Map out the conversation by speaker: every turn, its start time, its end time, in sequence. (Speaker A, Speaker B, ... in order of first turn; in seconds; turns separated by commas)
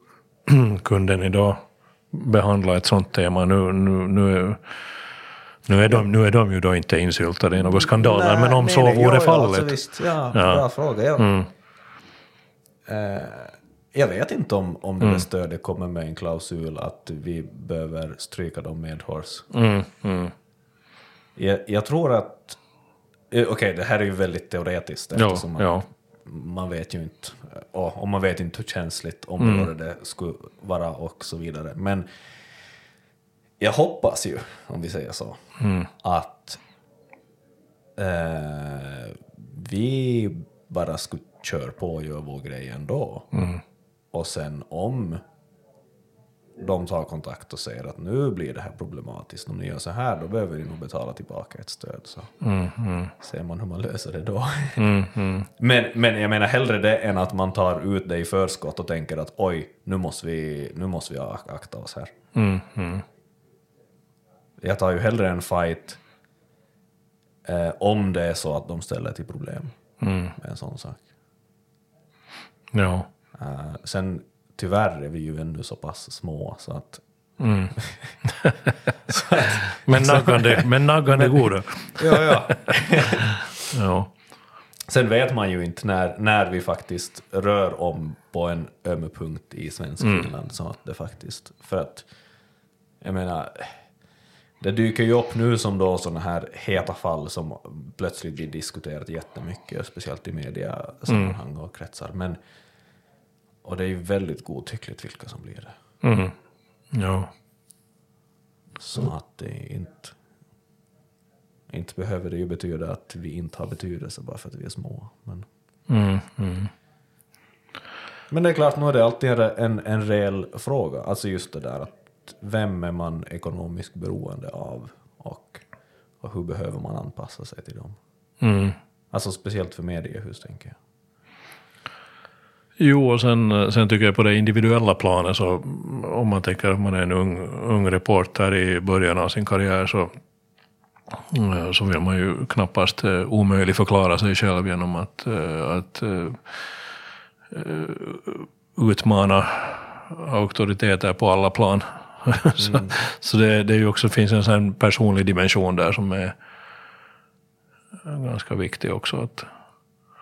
Speaker A: 0.5-4.6, Speaker A: 5.7-9.8, Speaker B: 7.6-11.4, Speaker A: 10.3-10.6, Speaker A: 11.2-11.5, Speaker B: 12.9-19.5, Speaker A: 19.5-20.3, Speaker B: 21.4-22.6, Speaker B: 23.3-32.1, Speaker A: 25.1-25.9, Speaker A: 29.4-29.7, Speaker B: 33.6-35.4, Speaker A: 35.6-35.9, Speaker B: 36.0-36.6, Speaker B: 38.0-43.3, Speaker A: 43.3-43.6, Speaker B: 44.1-45.2, Speaker B: 46.6-52.3, Speaker A: 52.4-53.1, Speaker B: 53.2-54.9, Speaker A: 54.8-55.5, Speaker B: 55.6-62.1, Speaker A: 62.3-63.0, Speaker B: 64.6-66.0, Speaker B: 67.4-69.7, Speaker A: 70.0-70.3, Speaker B: 70.4-71.0, Speaker A: 72.7-73.1, Speaker B: 73.4-77.0, Speaker A: 77.4-78.7, Speaker B: 77.8-78.1, Speaker B: 79.1-83.7, Speaker A: 79.8-84.1, Speaker B: 84.9-92.1, Speaker A: 90.0-90.3, Speaker B: 93.0-93.8, Speaker B: 94.6-102.4, Speaker A: 101.1-101.4, Speaker B: 103.6-105.7, Speaker A: 106.0-106.3, Speaker A: 106.9-107.3, Speaker B: 108.8-110.2, Speaker B: 111.7-115.5, Speaker A: 115.9-116.7, Speaker B: 118.3-125.6, Speaker B: 126.2-128.0, Speaker A: 128.4-128.8, Speaker B: 129.1-130.8, Speaker A: 132.8-140.1, Speaker A: 141.2-146.7, Speaker A: 147.5-156.4, Speaker B: 152.6-153.0, Speaker A: 158.0-159.5